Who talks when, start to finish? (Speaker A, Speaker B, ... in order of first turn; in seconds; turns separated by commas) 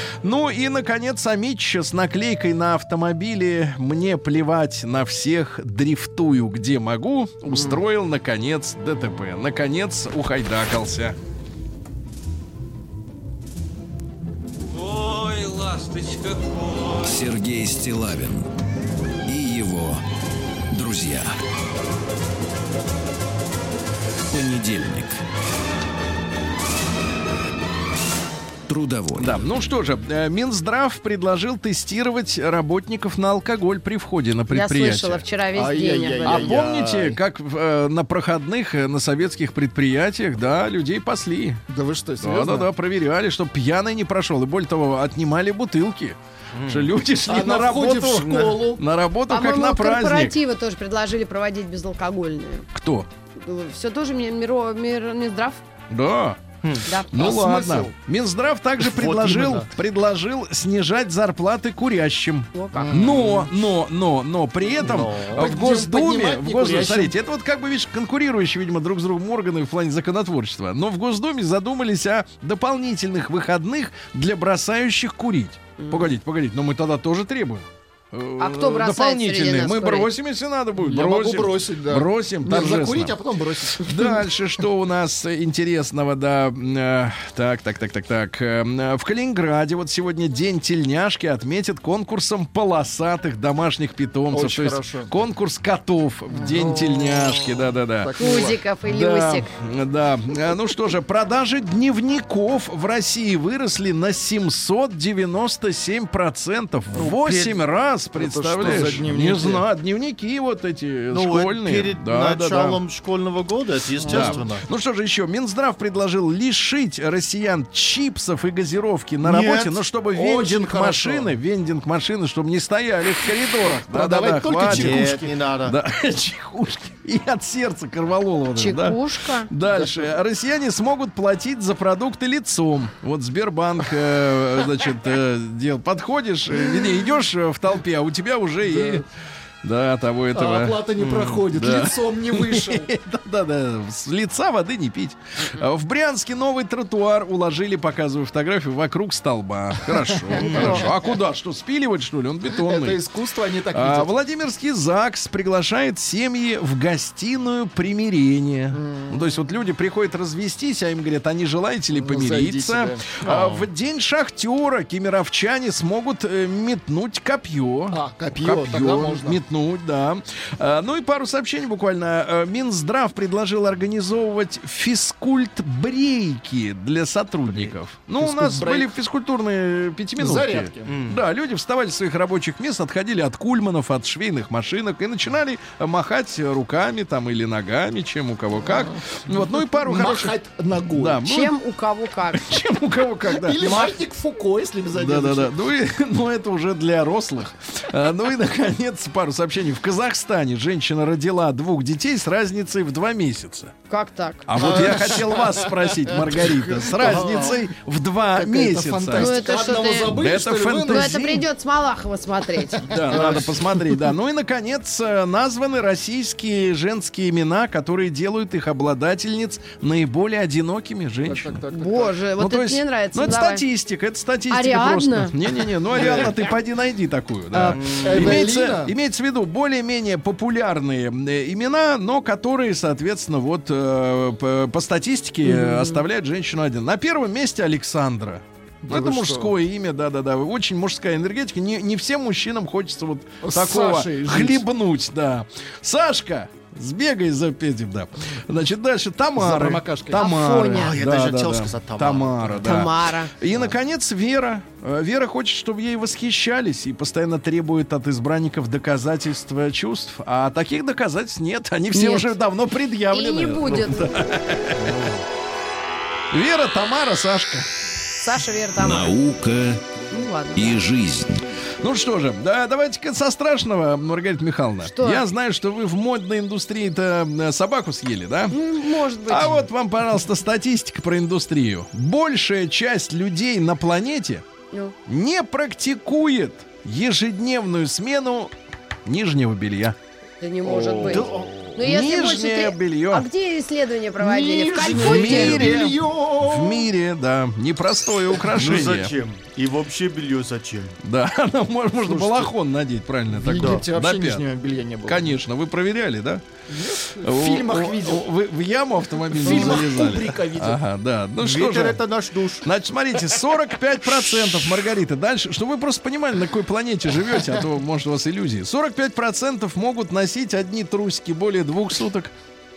Speaker A: 0.2-11.2, Speaker B: 7.5-7.8, Speaker C: 14.8-17.0, Speaker D: 17.0-18.5, Speaker D: 19.3-20.0, Speaker D: 20.7-21.4, Speaker D: 24.3-25.2, Speaker D: 28.7-29.4, Speaker A: 29.2-35.3, Speaker E: 34.5-36.5, Speaker B: 35.5-37.2, Speaker A: 36.2-41.6, Speaker B: 41.7-42.7, Speaker A: 42.2-50.4, Speaker F: 46.5-46.9, Speaker B: 47.3-48.8, Speaker E: 49.3-52.7, Speaker A: 52.7-53.1, Speaker E: 53.4-55.6, Speaker A: 55.9-56.4, Speaker A: 57.1-83.2, Speaker B: 57.1-57.9, Speaker F: 58.8-59.7, Speaker E: 62.5-62.9, Speaker B: 62.8-63.5, Speaker F: 64.8-65.5, Speaker B: 65.3-67.1, Speaker E: 75.8-76.1, Speaker E: 78.4-80.1, Speaker B: 80.8-83.9, Speaker A: 83.8-98.2, Speaker B: 94.3-95.1, Speaker B: 96.3-98.6, Speaker E: 98.2-99.5, Speaker A: 98.8-112.8, Speaker F: 107.0-107.5, Speaker B: 108.2-109.7, Speaker F: 111.1-114.7, Speaker B: 114.0-114.5, Speaker A: 114.1-139.0, Speaker F: 119.2-119.8, Speaker B: 120.1-121.3, Speaker B: 123.7-125.3, Speaker F: 124.7-125.8, Speaker E: 128.6-129.5, Speaker B: 129.7-130.1, Speaker B: 136.7-137.1, Speaker B: 138.6-139.0, Speaker A: 139.6-153.0, Speaker B: 140.3-142.9, Speaker B: 149.9-150.9, Speaker E: 150.4-150.8, Speaker F: 150.5-150.8, Speaker B: 152.5-154.1, Speaker A: 153.7-190.3, Speaker B: 158.7-159.3, Speaker B: 161.9-163.2, Speaker F: 163.2-163.7, Speaker B: 167.9-169.4, Speaker B: 178.2-179.0, Speaker B: 180.2-181.0, Speaker F: 180.9-181.2, Speaker B: 188.7-189.0, Speaker B: 189.5-191.2, Speaker A: 191.0-191.5, Speaker E: 191.2-192.6, Speaker A: 192.3-194.0, Speaker B: 193.2-195.5, Speaker A: 195.0-203.8, Speaker E: 203.9-204.9, Speaker A: 204.5-209.3, Speaker B: 204.6-207.7, Speaker B: 208.3-211.2, Speaker E: 209.2-210.2, Speaker A: 210.1-211.4, Speaker E: 210.9-213.1, Speaker A: 212.9-221.6, Speaker B: 212.9-213.8, Speaker B: 221.2-222.2, Speaker E: 221.7-223.6, Speaker A: 222.4-265.0, Speaker E: 224.5-225.3, Speaker B: 225.9-226.3, Speaker E: 227.5-227.8, Speaker F: 227.7-228.4, Speaker B: 228.0-228.9, Speaker E: 235.4-236.0, Speaker B: 238.8-239.5, Speaker B: 243.4-244.7, Speaker B: 249.4-250.3, Speaker E: 250.1-251.0, Speaker F: 250.7-252.7, Speaker E: 252.6-253.3, Speaker E: 261.9-262.3, Speaker E: 263.1-264.1, Speaker A: 266.3-267.7, Speaker E: 268.2-269.1, Speaker D: 268.8-269.8, Speaker E: 270.1-270.8, Speaker D: 270.6-271.4, Speaker A: 271.8-278.6, Speaker E: 274.9-275.2, Speaker E: 278.5-279.6, Speaker A: 279.3-284.4, Speaker A: 285.1-288.5, Speaker A: 289.1-290.0, Speaker E: 290.4-295.8, Speaker B: 290.6-291.4, Speaker F: 291.0-291.6, Speaker A: 291.8-293.3, Speaker B: 294.2-296.9, Speaker A: 294.8-299.1, Speaker F: 298.5-300.9, Speaker A: 301.0-304.4, Speaker B: 302.1-302.5, Speaker B: 303.4-305.3, Speaker F: 303.5-303.8, Speaker A: 305.1-306.4, Speaker B: 306.7-308.2, Speaker A: 307.2-312.0, Speaker B: 309.3-310.8, Speaker F: 309.4-309.8, Speaker F: 311.4-312.7, Speaker A: 312.6-322.3